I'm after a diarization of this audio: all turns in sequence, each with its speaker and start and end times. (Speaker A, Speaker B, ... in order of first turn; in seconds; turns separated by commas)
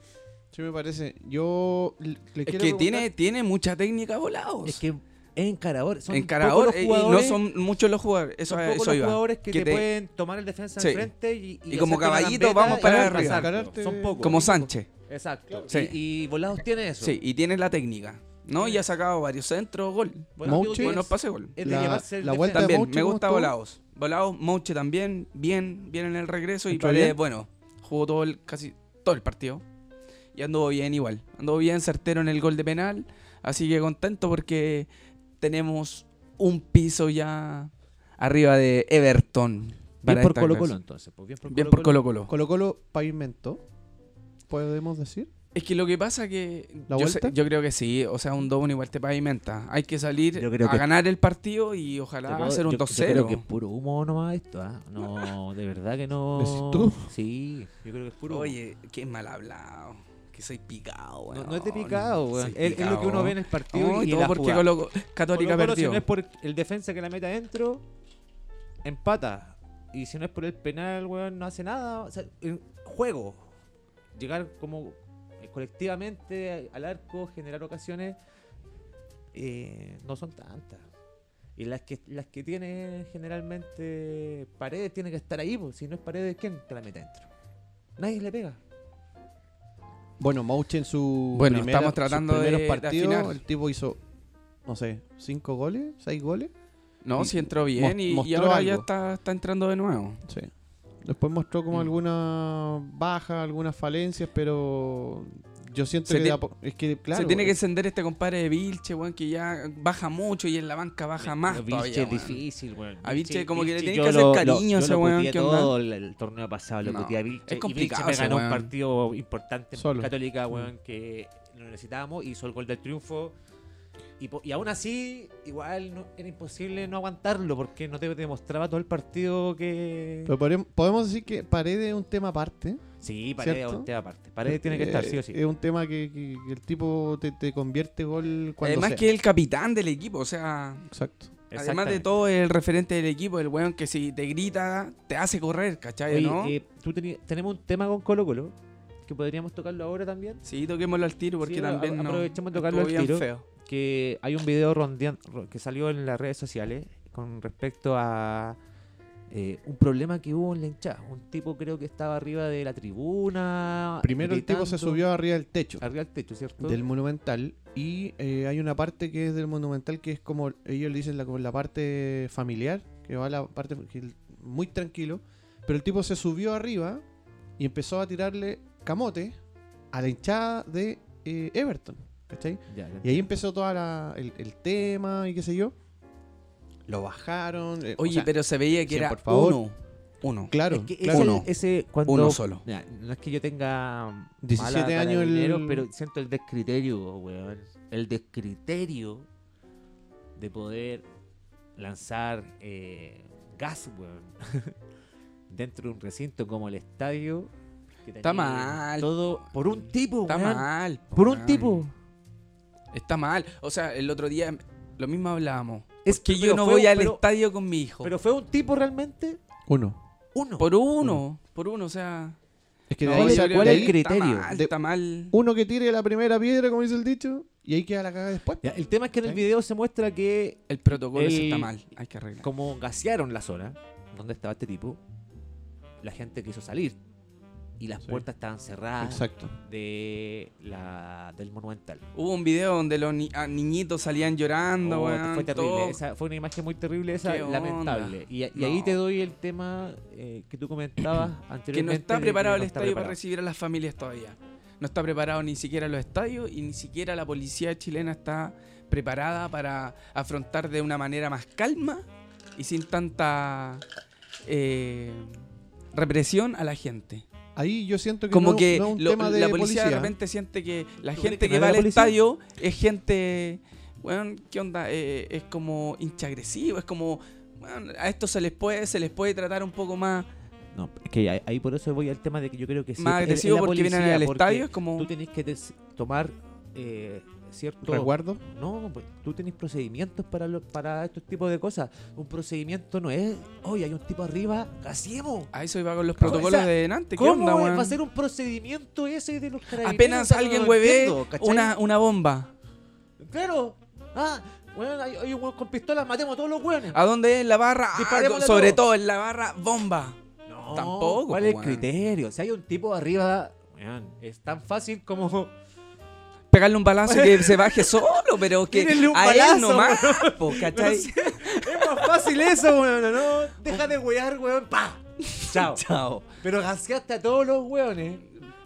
Speaker A: 0.5-3.1, Speaker B: 2.4-4.8, Speaker C: 4.6-7.4, Speaker B: 6.1-9.8, Speaker C: 8.5-17.2, Speaker B: 10.8-11.1, Speaker B: 11.7-13.5, Speaker A: 12.7-14.5, Speaker B: 14.2-14.9, Speaker B: 15.7-15.9, Speaker B: 17.0-29.6, Speaker C: 18.6-18.8, Speaker C: 20.4-22.7, Speaker A: 20.4-23.5, Speaker A: 26.7-27.2, Speaker B: 30.3-34.9, Speaker B: 35.4-40.7, Speaker C: 40.0-42.0, Speaker B: 41.5-42.3, Speaker A: 42.3-43.6, Speaker A: 44.5-45.3, Speaker B: 45.5-53.4, Speaker A: 46.9-47.3, Speaker C: 50.4-50.9, Speaker C: 52.3-58.6, Speaker A: 56.3-57.1, Speaker B: 58.3-66.0, Speaker C: 61.3-64.7, Speaker C: 65.3-67.8, Speaker C: 68.8-73.4, Speaker C: 74.1-78.2, Speaker C: 79.3-80.8, Speaker C: 81.6-87.3, Speaker C: 88.0-88.6, Speaker A: 90.2-94.0, Speaker B: 91.3-93.4, Speaker A: 94.7-96.5, Speaker B: 97.0-100.2, Speaker A: 97.2-98.8, Speaker A: 101.0-107.5, Speaker B: 106.1-106.4, Speaker B: 107.1-112.4, Speaker C: 111.2-123.3, Speaker B: 113.0-115.7, Speaker B: 116.8-118.7, Speaker A: 119.8-120.1, Speaker C: 124.2-130.3, Speaker A: 130.2-132.8, Speaker C: 133.0-135.4, Speaker A: 133.4-133.9, Speaker A: 134.4-139.1, Speaker B: 138.6-140.8, Speaker A: 140.9-141.3, Speaker C: 141.5-142.1, Speaker B: 141.5-146.6, Speaker C: 146.1-148.5, Speaker C: 149.1-150.4, Speaker B: 150.4-153.4, Speaker C: 151.4-158.6, Speaker C: 159.3-165.0, Speaker A: 164.0-165.8, Speaker C: 165.8-166.8, Speaker A: 166.6-177.0, Speaker A: 177.6-179.4, Speaker A: 179.9-185.7, Speaker C: 182.7-183.3, Speaker A: 186.9-188.3, Speaker B: 188.0-190.5, Speaker A: 188.8-189.6, Speaker A: 190.5-191.4, Speaker C: 190.7-199.3, Speaker B: 191.0-191.5, Speaker B: 192.0-192.6, Speaker A: 194.4-195.8, Speaker C: 200.4-201.0, Speaker C: 201.8-204.7, Speaker C: 205.5-207.5, Speaker C: 208.0-211.9, Speaker B: 208.2-209.1, Speaker B: 210.3-211.8, Speaker B: 212.9-218.1, Speaker C: 216.0-217.2, Speaker C: 218.0-219.4, Speaker A: 219.7-220.0, Speaker C: 220.3-220.7, Speaker B: 220.6-222.4, Speaker A: 222.9-223.9, Speaker B: 223.0-225.3, Speaker C: 223.0-224.5, Speaker A: 225.3-229.4, Speaker C: 228.6-231.7, Speaker B: 230.7-232.5, Speaker C: 232.4-235.0, Speaker C: 236.0-237.0, Speaker C: 237.8-242.0, Speaker A: 239.0-239.5, Speaker B: 242.1-246.0, Speaker C: 244.8-253.2, Speaker B: 247.2-249.0, Speaker B: 251.7-262.0, Speaker B: 262.6-263.8, Speaker B: 264.4-265.4, Speaker B: 265.9-267.2, Speaker A: 267.6-270.1, Speaker B: 268.3-280.3, Speaker C: 271.1-272.1, Speaker C: 280.7-295.5, Speaker B: 283.0-285.1, Speaker A: 287.8-288.4, Speaker B: 295.5-298.0, Speaker C: 296.2-301.7, Speaker B: 299.8-302.5, Speaker C: 303.2-307.0, Speaker B: 306.9-310.2, Speaker C: 307.9-308.8, Speaker C: 310.5-315.5, Speaker B: 310.7-311.8, Speaker B: 316.5-322.4, Speaker C: 317.1-318.0, Speaker C: 318.7-325.8, Speaker B: 325.2-326.2, Speaker C: 326.4-328.2